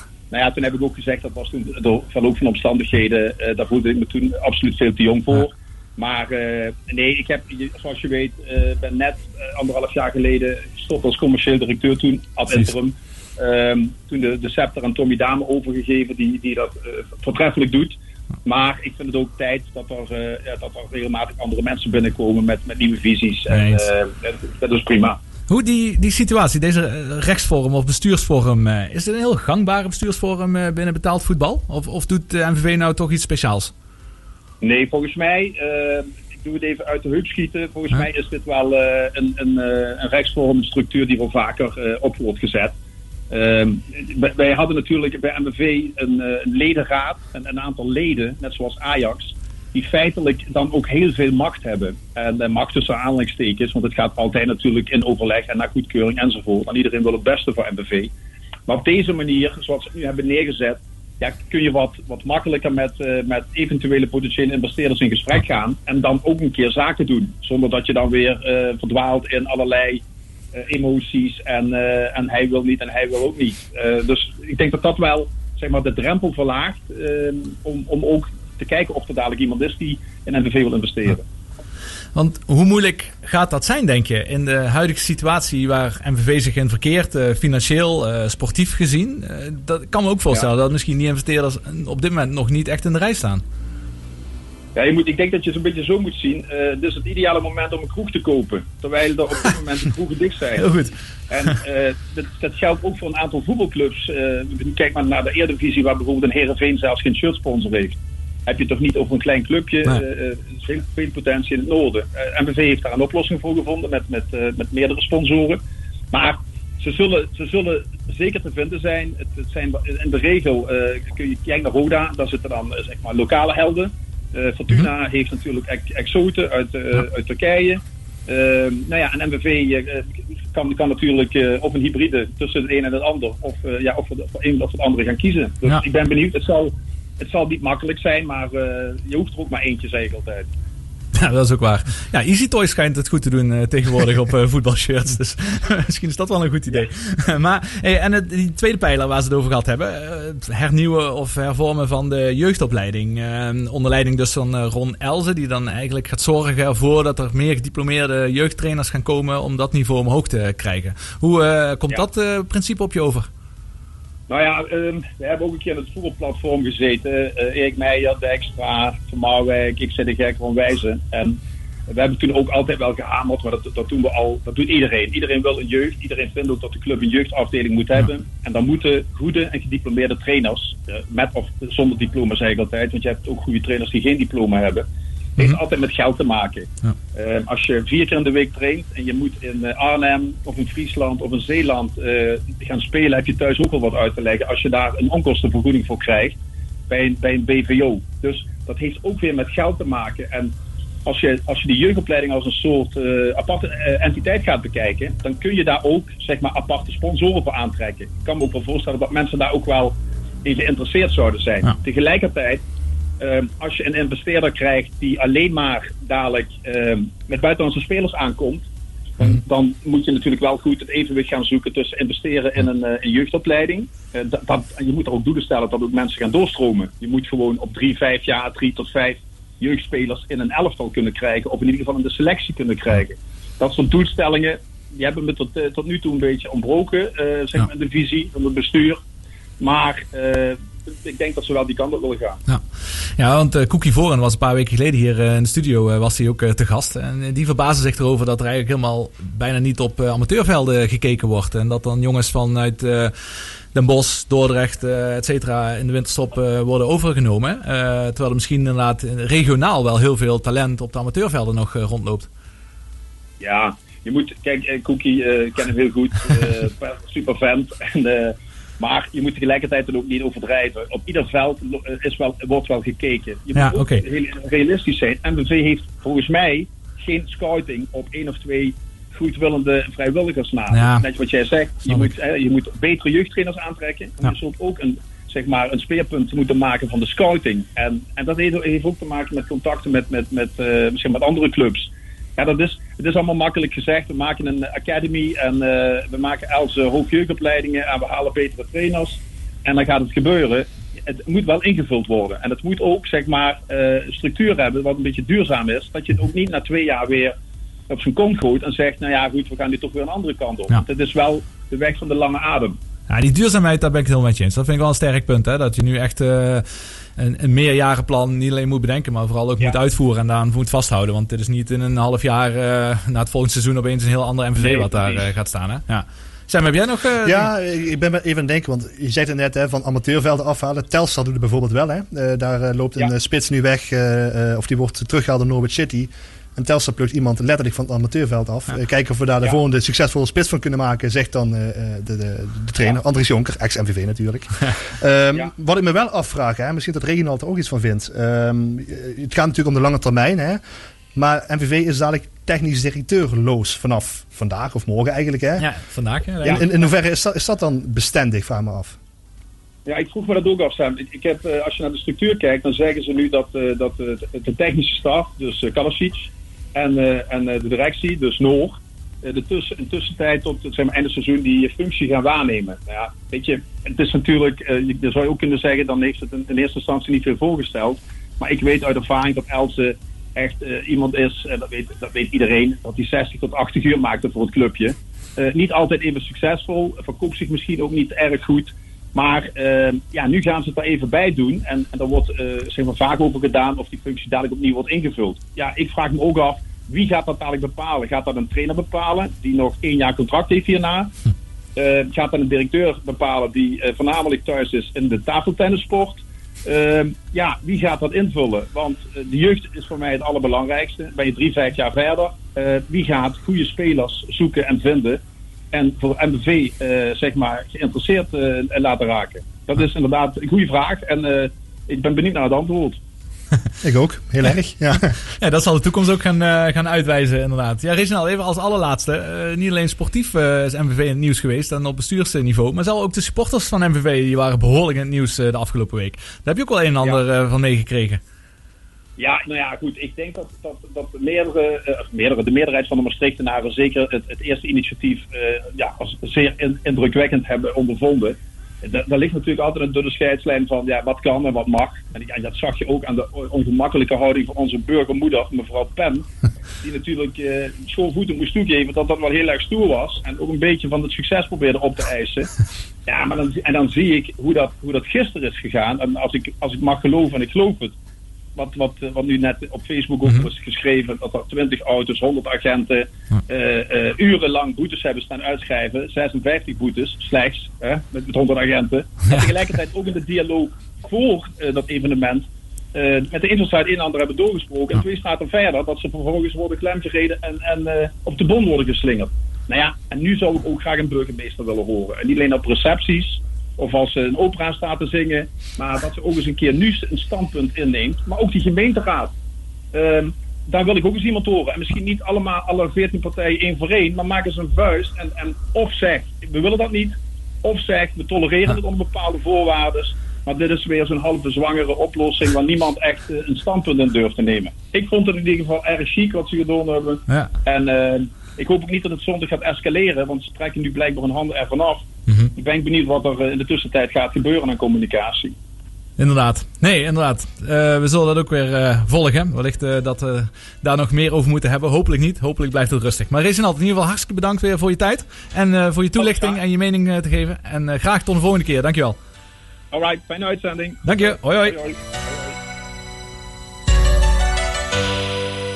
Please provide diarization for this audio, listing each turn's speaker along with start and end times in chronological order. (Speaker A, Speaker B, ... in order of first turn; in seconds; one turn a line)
Speaker A: 0.3-25.2
Speaker B: 23.5-23.9
Speaker B: 25.5-33.7
Speaker A: 34.6-42.8
Speaker A: 43.3-58.1
Speaker A: 58.7-70.0
Speaker A: 70.5-81.2
Speaker B: 82.1-93.4
Speaker A: 94.7-100.7
Speaker B: 100.6-100.9
Speaker A: 101.3-115.6
Speaker A: 116.1-140.5
Speaker B: 141.1-163.3
Speaker A: 164.3-184.9
Speaker A: 185.4-196.4
Speaker A: 196.9-212.6
Speaker A: 213.2-218.7
Speaker A: 219.2-239.0
Speaker A: 239.6-242.4
Speaker B: 243.2-253.1
Speaker B: 253.7-262.3
Speaker A: 263.4-307.4
Speaker B: 273.6-274.1
Speaker B: 280.7-281.1
Speaker A: 307.9-312.8
Speaker B: 313.1-316.6
Speaker B: 317.2-327.5
Speaker A: 324.6-325.3
Speaker C: 327.2-350.6
Speaker C: 351.1-355.7
Speaker B: 355.6-356.6
Speaker C: 356.4-359.0
Speaker A: 359.9-401.1
Speaker A: 401.8-423.0
Speaker C: 423.8-425.1
Speaker B: 425.4-438.2
Speaker A: 439.2-456.3
Speaker A: 456.8-462.5
Speaker A: 463.1-467.9
Speaker A: 468.6-499.3
Speaker A: 499.9-525.5
Speaker B: 522.3-522.5
Speaker B: 526.2-539.2
Speaker A: 536.2-536.6
Speaker A: 539.9-542.0
Speaker B: 541.0-541.8